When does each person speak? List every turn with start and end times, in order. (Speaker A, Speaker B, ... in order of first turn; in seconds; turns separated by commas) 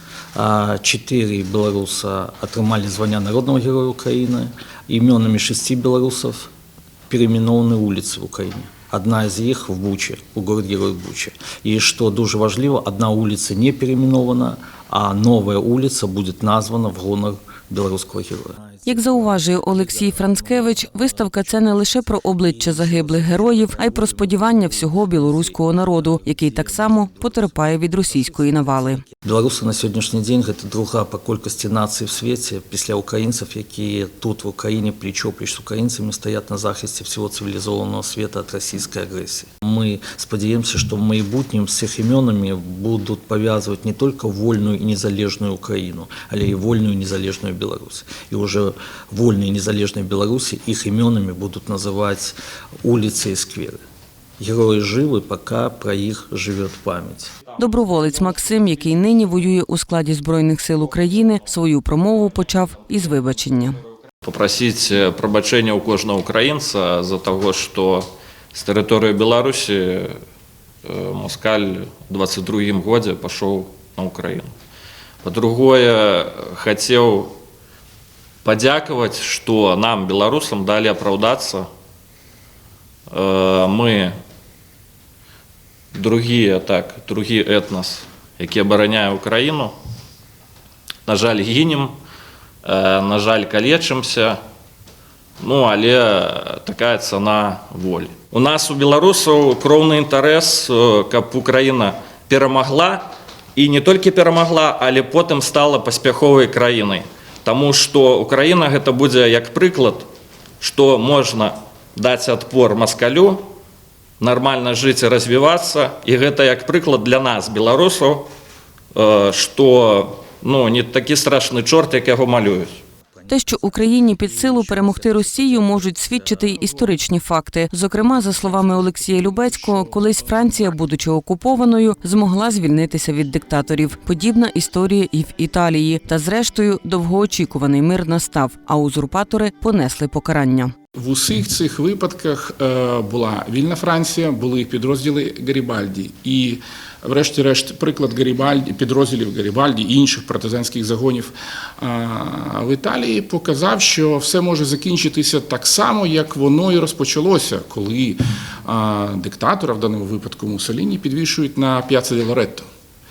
Speaker A: 0.3-6.5, Speaker A: 7.1-21.4, Speaker B: 18.9-29.0, Speaker A: 22.5-27.5, Speaker A: 28.4-53.8, Speaker A: 54.4-57.3, Speaker B: 57.6-63.8, Speaker C: 64.2-70.2, Speaker C: 70.8-74.5, Speaker C: 75.2-77.3, Speaker C: 78.4-81.7, Speaker C: 83.1-84.1, Speaker C: 85.9-89.7, Speaker C: 91.0-91.9, Speaker C: 92.6-94.4, Speaker C: 95.4-110.1, Speaker C: 110.6-113.5, Speaker C: 114.2-118.3, Speaker C: 118.9-122.8, Speaker A: 123.2-126.9, Speaker B: 123.3-140.7, Speaker D: 140.9-162.7